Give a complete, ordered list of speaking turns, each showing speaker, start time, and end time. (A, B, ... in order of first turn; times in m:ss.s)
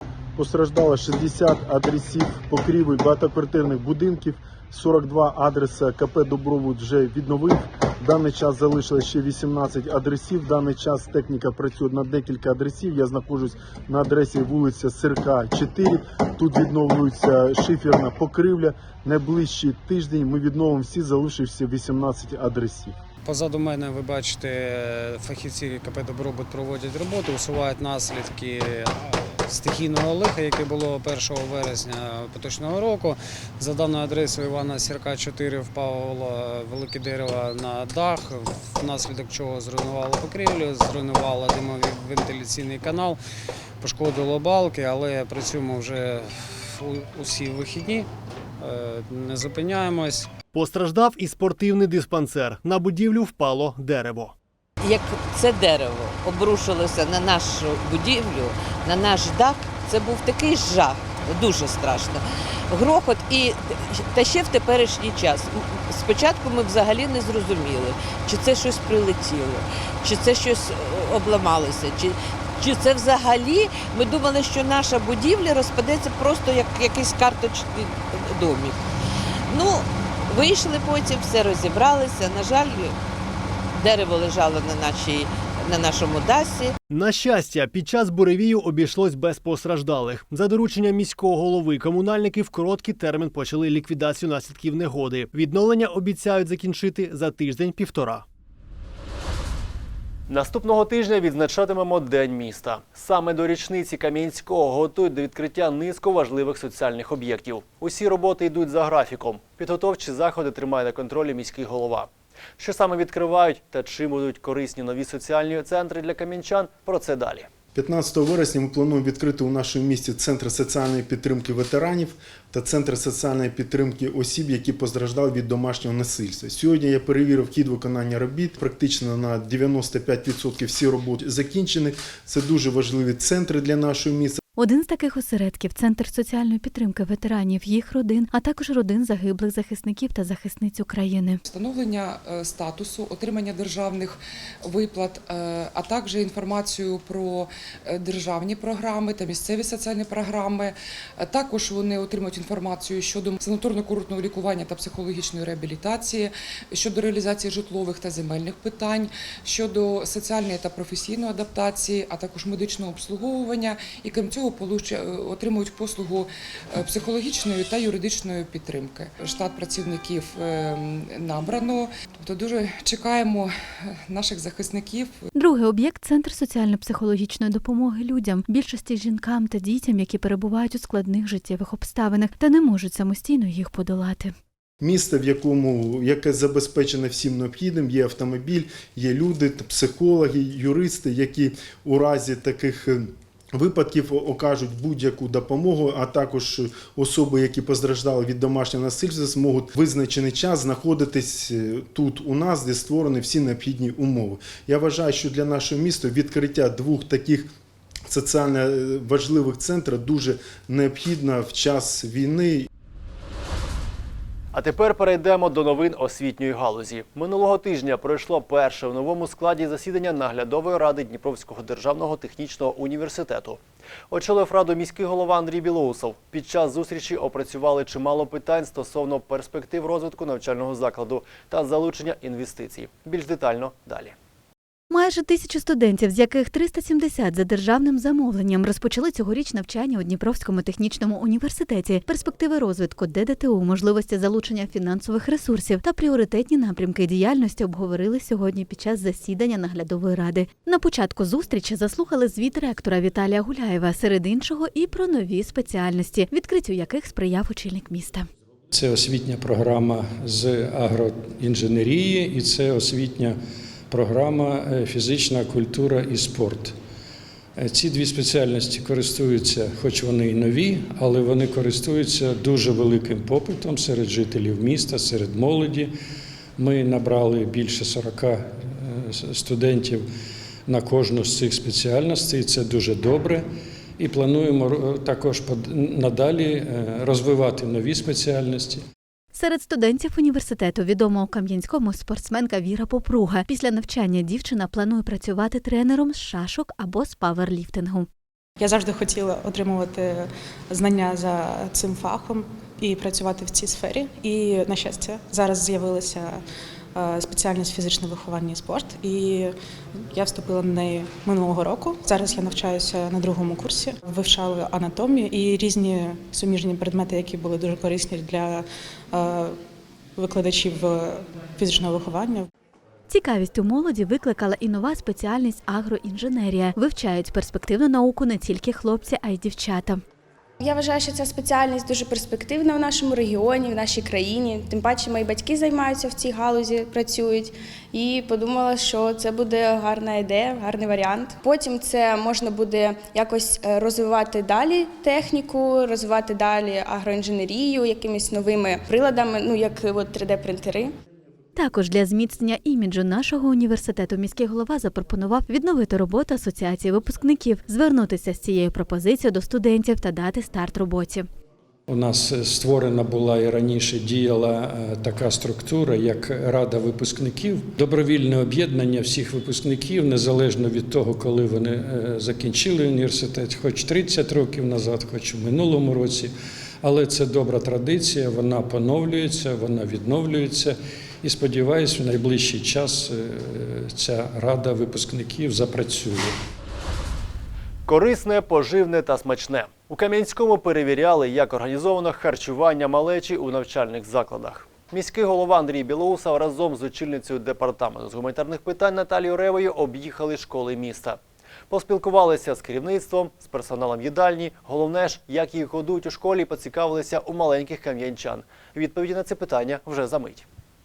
0:00.4-0:23.0 A
0:23.3-0:28.6 B
0:29.5-0:43.2 B
0:43.8-0:46.2 B
0:46.9-0:48.0 B
0:48.6-0:50.2 B
0:50.5-0:54.4 C
0:57.1-0:57.5 D
0:59.1-1:00.8 D
1:01.4-1:02.0 D
1:02.8-1:03.5 D
1:04.1-1:05.4 D
1:06.0-1:12.1 D
1:12.6-1:17.8 D
1:20.5-1:22.8 D
1:23.9-1:25.1 D
1:25.8-1:26.7 D
1:26.9-1:38.2 C
1:40.3-1:57.5 C
1:57.8-2:14.4 A
2:14.6-2:21.4 E
2:21.5-2:55.2 F
2:55.3-3:04.3 E
3:04.8-3:27.5 A
3:28.1-3:32.7 A
3:34.5-3:43.6 C
3:44.1-3:54.2 C
3:54.9-4:18.3 E
4:18.7-4:23.4 G
4:23.9-4:26.7 G
4:27.6-4:35.9 G
4:36.6-4:40.0 G
4:40.7-4:43.4 G
4:44.0-4:48.8 G
4:49.3-4:58.1 E
4:58.6-5:06.4 H
5:07.0-5:09.5 H
5:10.1-5:19.6 H
5:20.2-5:22.5 H
5:23.1-5:30.0 E
5:30.6-5:50.9 I
5:51.6-6:01.3 E
6:01.9-6:26.4 G
6:27.9-6:50.5 C